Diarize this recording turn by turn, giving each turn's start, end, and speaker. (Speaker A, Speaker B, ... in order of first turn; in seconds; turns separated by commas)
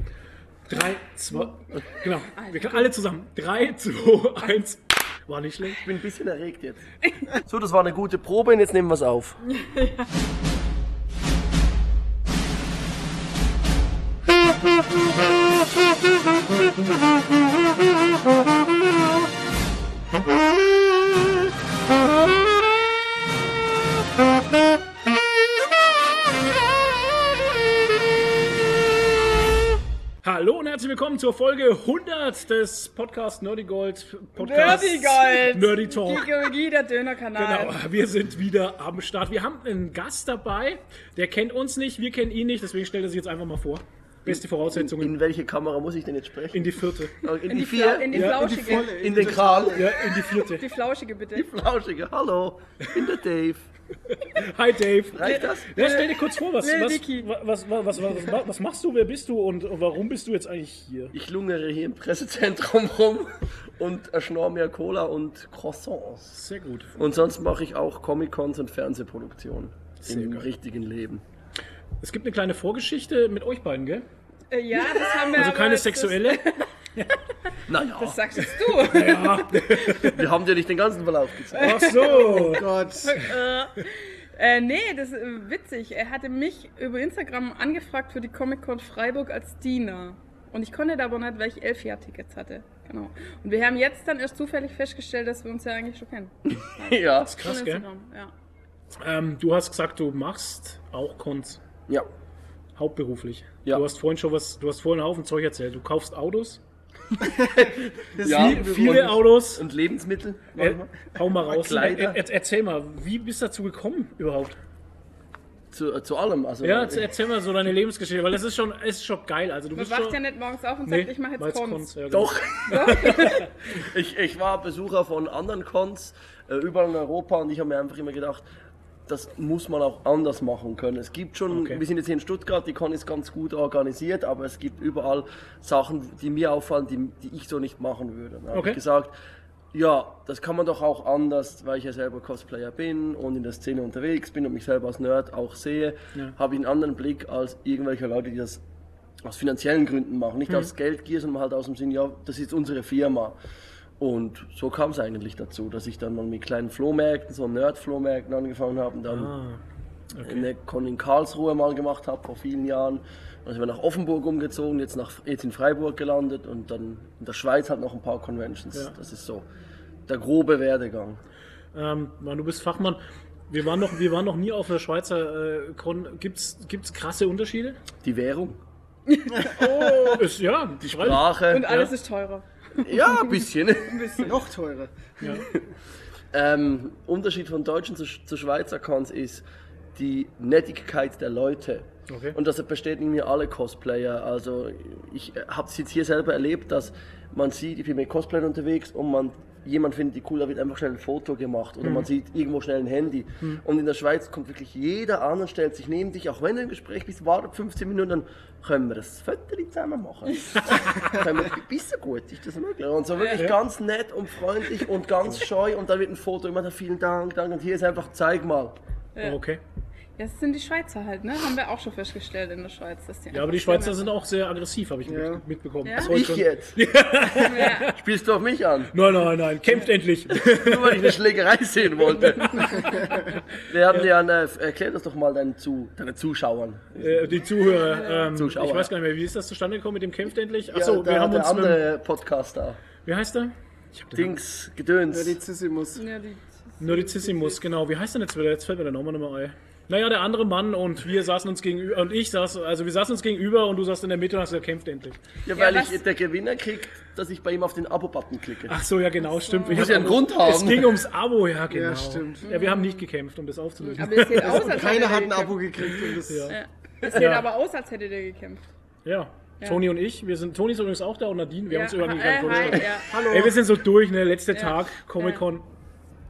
Speaker A: 0.7-5.8, Speaker B: 2.3-2.9, Speaker C: 5.8-6.8, Speaker C: 7.3-9.4, Speaker B: 9.6-10.0, Speaker A: 30.2-36.5, Speaker B: 34.4-37.8, Speaker A: 37.3-45.1, Speaker C: 44.2-49.9, Speaker A: 46.5-47.2, Speaker B: 47.4-49.0, Speaker A: 48.1-48.8, Speaker D: 48.1-50.0, Speaker A: 49.7-50.6, Speaker B: 50.3-51.5, Speaker C: 51.3-53.7, Speaker A: 54.1-61.1, Speaker C: 55.1-55.7, Speaker B: 55.2-57.3, Speaker C: 61.1-66.4, Speaker A: 66.3-66.9, Speaker C: 66.9-71.2, Speaker A: 70.0-70.5, Speaker A: 72.0-74.0, Speaker B: 74.5-76.6, Speaker A: 75.3-76.4, Speaker C: 77.7-78.2, Speaker B: 78.0-80.0, Speaker A: 78.5-80.2, Speaker C: 80.0-82.0, Speaker B: 81.5-98.3, Speaker A: 81.6-82.7, Speaker D: 82.1-83.2, Speaker C: 96.5-97.4, Speaker A: 97.2-97.8, Speaker A: 99.0-101.6, Speaker A: 102.8-106.6, Speaker D: 107.2-109.1, Speaker C: 107.5-112.2, Speaker A: 108.2-109.6, Speaker A: 110.6-114.6, Speaker C: 115.7-117.1, Speaker A: 116.6-120.2, Speaker B: 119.7-121.9, Speaker A: 120.8-123.5, Speaker C: 122.1-128.4, Speaker B: 122.7-123.5, Speaker C: 129.1-139.1, Speaker A: 131.5-131.8, Speaker A: 138.5-138.8, Speaker C: 139.7-148.6, Speaker C: 149.2-153.3, Speaker C: 154.0-159.3, Speaker A: 159.1-159.6, Speaker A: 160.2-160.5, Speaker C: 160.2-169.5, Speaker C: 170.1-171.2, Speaker A: 171.7-177.8, Speaker C: 178.0-178.6, Speaker B: 179.1-180.2, Speaker D: 179.4-180.1, Speaker A: 179.8-181.9, Speaker C: 180.8-181.7, Speaker B: 181.5-184.4, Speaker C: 182.8-184.3, Speaker D: 184.2-185.2, Speaker A: 185.2-185.4, Speaker C: 186.3-189.4, Speaker C: 189.9-218.8, Speaker A: 192.1-192.4, Speaker A: 201.8-202.1, Speaker A: 210.7-211.2, Speaker B: 213.2-213.4, Speaker A: 219.2-219.6, Speaker B: 220.2-224.1, Speaker A: 223.3-228.0, Speaker D: 225.1-225.4, Speaker B: 225.8-226.1, Speaker C: 226.0-226.8, Speaker B: 227.4-227.9, Speaker C: 227.9-228.9, Speaker A: 228.9-231.2, Speaker C: 230.4-233.1, Speaker B: 232.2-233.2, Speaker A: 233.2-234.1, Speaker C: 233.7-237.4, Speaker A: 237.0-241.8, Speaker B: 237.6-238.4, Speaker C: 238.3-238.9, Speaker C: 240.7-242.8, Speaker A: 243.0-244.3, Speaker C: 244.1-245.4, Speaker D: 245.1-246.0, Speaker B: 246.0-247.6, Speaker A: 246.8-255.2, Speaker C: 255.4-258.8, Speaker B: 255.5-256.0, Speaker A: 258.7-265.0, Speaker B: 259.2-260.0, Speaker C: 259.7-261.0, Speaker D: 261.7-262.4, Speaker B: 262.4-263.1, Speaker B: 263.8-265.6, Speaker D: 264.3-266.6, Speaker A: 266.1-266.5, Speaker B: 266.5-268.6, Speaker A: 267.1-267.5, Speaker A: 269.0-275.6, Speaker B: 271.7-273.1, Speaker D: 272.4-273.6, Speaker B: 274.5-275.4